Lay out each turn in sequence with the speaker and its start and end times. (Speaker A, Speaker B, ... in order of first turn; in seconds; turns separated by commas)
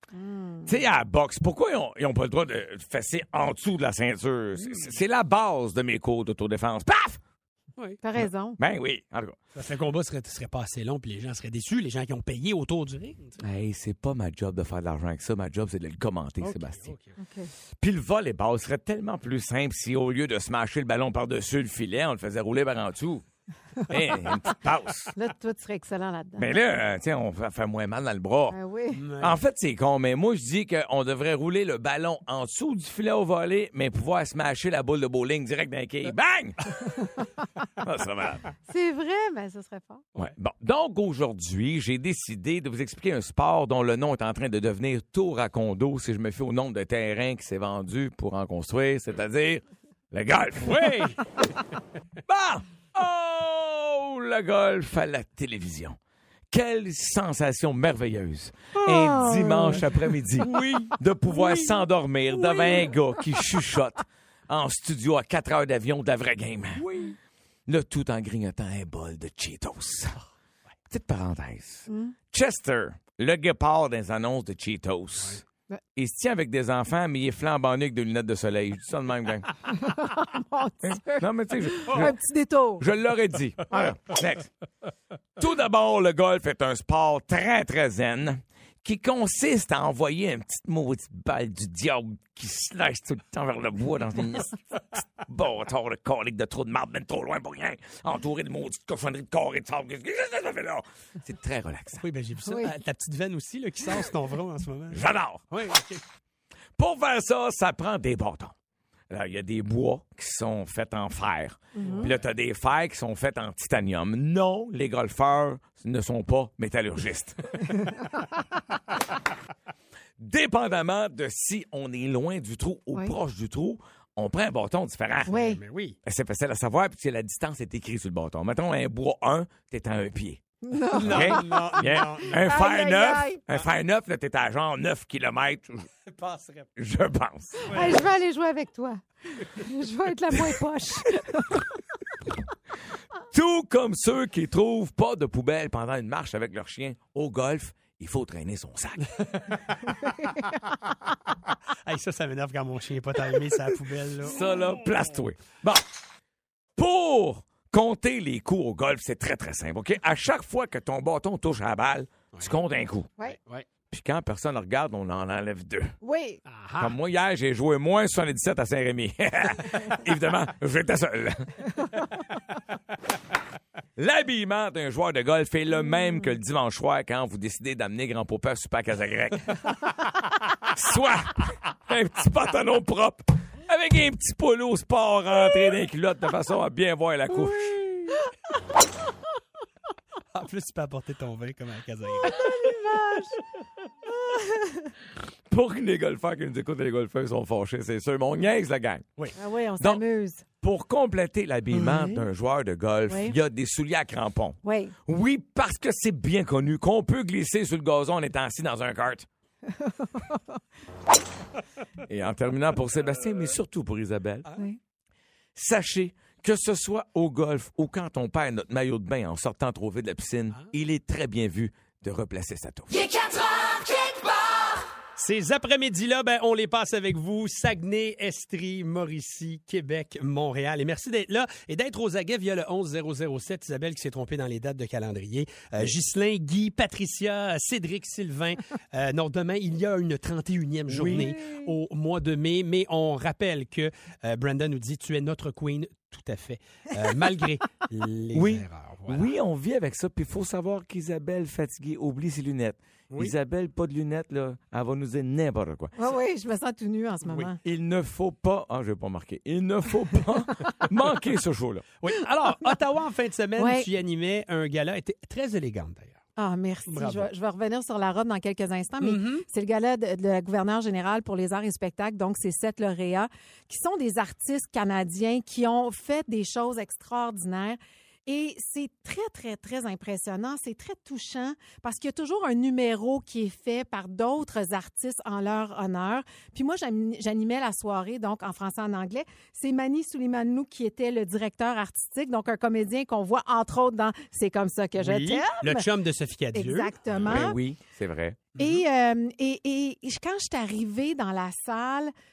Speaker A: 0.1-0.8, Speaker B: 0.7-7.2, Speaker C: 4.6-4.9, Speaker A: 8.0-8.6, Speaker B: 8.2-9.4, Speaker C: 9.6-13.4, Speaker B: 13.4-16.9, Speaker C: 16.4-17.2, Speaker A: 17.2-17.5, Speaker B: 17.8-23.2, Speaker B: 23.9-25.1, Speaker A: 25.1-26.5, Speaker B: 26.4-28.6, Speaker A: 28.5-29.0, Speaker C: 28.9-29.4, Speaker B: 29.2-36.6, Speaker B: 37.8-38.5, Speaker A: 38.7-40.0, Speaker B: 40.2-51.1, Speaker C: 50.6-51.2, Speaker B: 52.3-56.0, Speaker B: 56.5-66.8, Speaker A: 58.9-59.8, Speaker C: 60.6-60.8, Speaker C: 66.8-67.1, Speaker B: 67.7-70.2, Speaker B: 70.9-75.4, Speaker A: 71.9-72.1, Speaker B: 76.0-79.5, Speaker A: 79.7-82.8, Speaker B: 80.8-82.2, Speaker B: 82.8-84.5, Speaker B: 85.4-102.0, Speaker C: 102.0-106.0, Speaker A: 102.5-102.7, Speaker B: 104.9-105.4, Speaker B: 106.8-108.5, Speaker B: 109.1-117.7, Speaker A: 111.8-112.1, Speaker C: 111.8-112.2, Speaker B: 120.2-125.3, Speaker A: 125.3-125.6, Speaker C: 125.3-126.0, Speaker B: 126.0-135.9, Speaker A: 130.7-133.4, Speaker C: 130.9-132.5, Speaker C: 136.1-136.7, Speaker B: 136.8-137.6, Speaker A: 137.7-141.7, Speaker C: 137.7-138.0, Speaker B: 143.3-149.1, Speaker C: 149.2-149.8, Speaker C: 151.8-154.5, Speaker B: 154.2-155.9, Speaker B: 156.8-163.1, Speaker C: 163.2-163.7, Speaker B: 163.9-166.0, Speaker A: 166.0-166.4, Speaker C: 166.5-166.9, Speaker B: 166.8-171.7, Speaker B: 174.0-179.8, Speaker B: 180.6-187.8, Speaker C: 190.3-192.5, Speaker A: 192.2-193.4, Speaker A: 194.2-194.9, Speaker B: 195.5-199.1, Speaker A: 199.4-200.4, Speaker B: 200.6-209.3, Speaker A: 201.8-202.2, Speaker A: 203.1-203.4, Speaker A: 204.6-204.9, Speaker A: 209.8-210.4, Speaker B: 212.1-214.5, Speaker B: 215.6-223.3, Speaker C: 225.2-249.3, Speaker B: 240.9-241.3, Speaker A: 241.2-241.7, Speaker B: 248.3-255.9, Speaker A: 256.0-257.6, Speaker B: 257.6-261.9, Speaker C: 262.0-266.2, Speaker A: 263.6-263.9, Speaker A: 266.4-295.9, Speaker C: 266.9-267.3, Speaker C: 269.0-269.5, Speaker C: 295.0-297.0, Speaker A: 296.5-297.6, Speaker B: 297.2-298.4, Speaker C: 298.6-298.8, Speaker A: 298.6-302.1